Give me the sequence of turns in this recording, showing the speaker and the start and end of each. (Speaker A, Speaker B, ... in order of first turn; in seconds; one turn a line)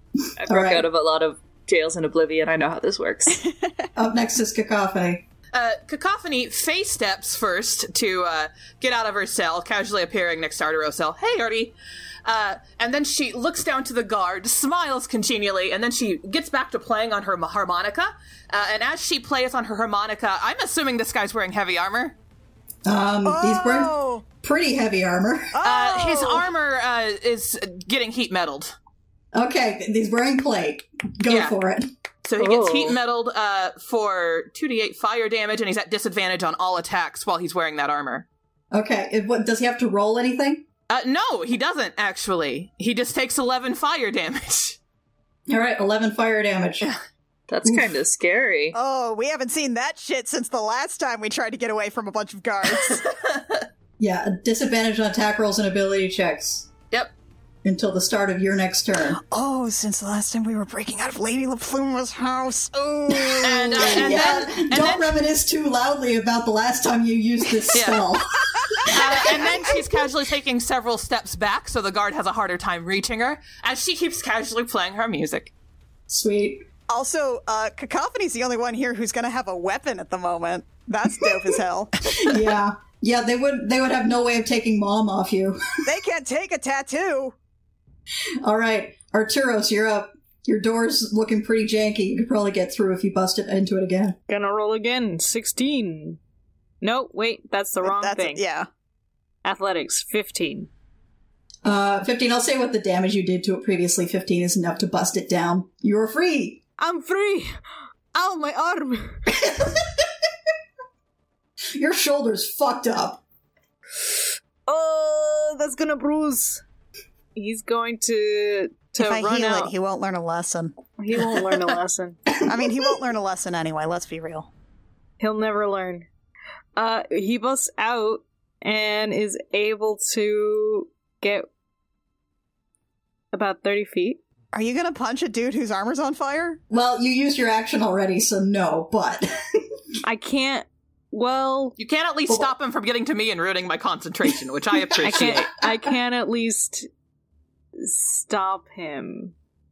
Speaker A: 0.4-3.4
Speaker B: 0.5-0.9
Speaker C: 3.4-3.8
Speaker B: 4.0-5.2
Speaker D: 5.5-22.1
Speaker B: 22.9-23.9
Speaker C: 23.2-24.2
Speaker B: 24.4-25.5
Speaker C: 25.5-26.5
Speaker D: 25.6-28.7
Speaker B: 29.3-31.8
Speaker D: 31.3-31.6
Speaker D: 32.2-38.2
Speaker A: 32.4-33.0
Speaker B: 38.7-40.6
Speaker D: 40.9-44.8
Speaker B: 45.5-46.9
Speaker A: 47.5-48.8
Speaker B: 47.6-47.9
Speaker C: 48.7-53.1
Speaker B: 54.0-56.7
Speaker B: 57.6-59.2
Speaker C: 59.1-64.4
Speaker B: 63.3-69.5
Speaker D: 63.4-65.1
Speaker D: 67.7-68.1
Speaker C: 68.6-69.2
Speaker D: 68.9-75.5
Speaker B: 76.1-76.6
Speaker C: 76.9-82.2
Speaker B: 82.1-85.6
Speaker C: 85.8-87.3
Speaker B: 88.4-94.2
Speaker E: 94.3-96.2
Speaker E: 96.8-98.4
Speaker C: 97.8-98.7
Speaker E: 99.4-100.7
Speaker B: 101.6-106.6
Speaker E: 106.8-107.6
Speaker E: 108.1-109.3
Speaker B: 109.3-110.0
Speaker B: 111.8-113.2
Speaker E: 114.0-116.6
Speaker E: 117.3-119.7
Speaker C: 118.9-120.8
Speaker E: 121.0-122.4
Speaker C: 122.3-124.5
Speaker E: 125.2-126.1
Speaker E: 126.8-131.5
Speaker E: 133.3-134.2
Speaker C: 134.5-136.6
Speaker B: 136.7-139.3
Speaker E: 140.0-141.7
Speaker D: 141.8-145.6
Speaker E: 145.0-146.9
Speaker E: 147.8-149.3